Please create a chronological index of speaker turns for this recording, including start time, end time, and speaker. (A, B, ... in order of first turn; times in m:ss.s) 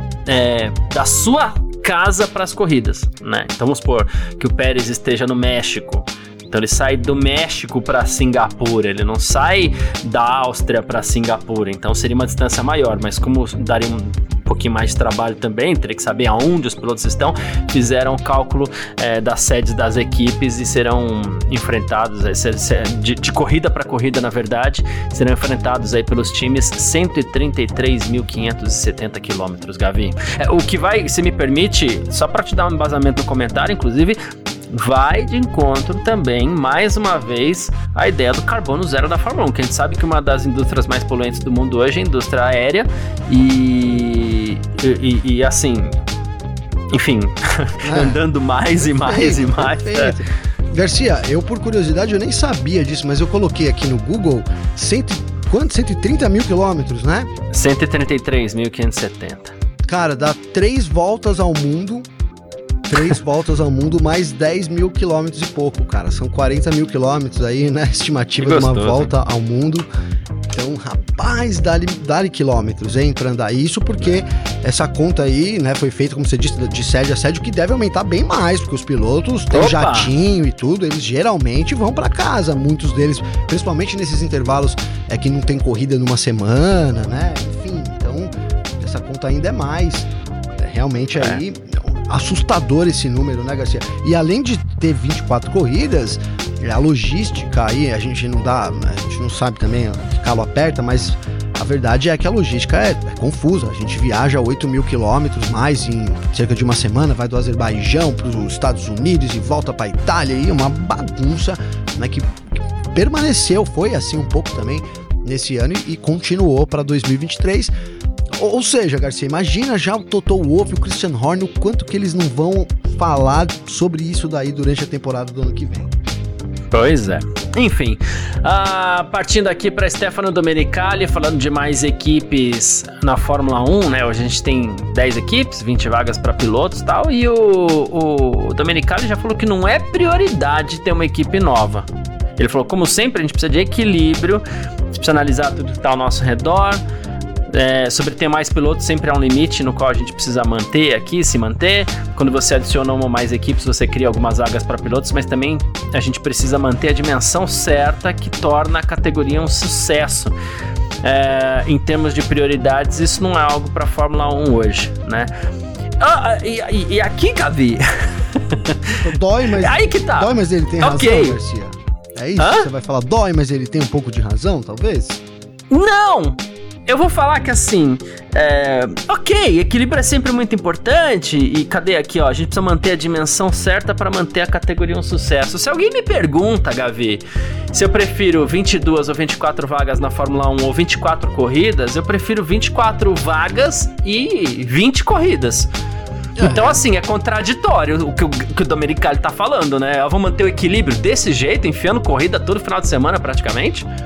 0:00.2-0:34.2 A
0:34.7-0:46.0 A
0:46.9-0:50.2 A
0:47.8-0:48.2 B
0:48.8-0:57.3 B
0:57.5-0:59.5 A
0:59.9-1:02.0 B
1:02.9-1:09.9 B
1:08.4-1:09.1 A
1:10.5-1:52.4 B
1:19.5-1:20.1 A
1:52.9-1:57.7 B
1:58.3-2:05.9 B
2:06.7-2:21.8 A
2:22.4-2:26.8 A
2:27.5-2:40.3 A
2:41.0-2:45.3 A
2:46.0-2:51.4 A
2:49.0-2:55.2 B
2:52.4-2:52.7 A
2:55.7-3:15.7 A
3:16.4-3:16.8 B
3:16.4-3:23.9 A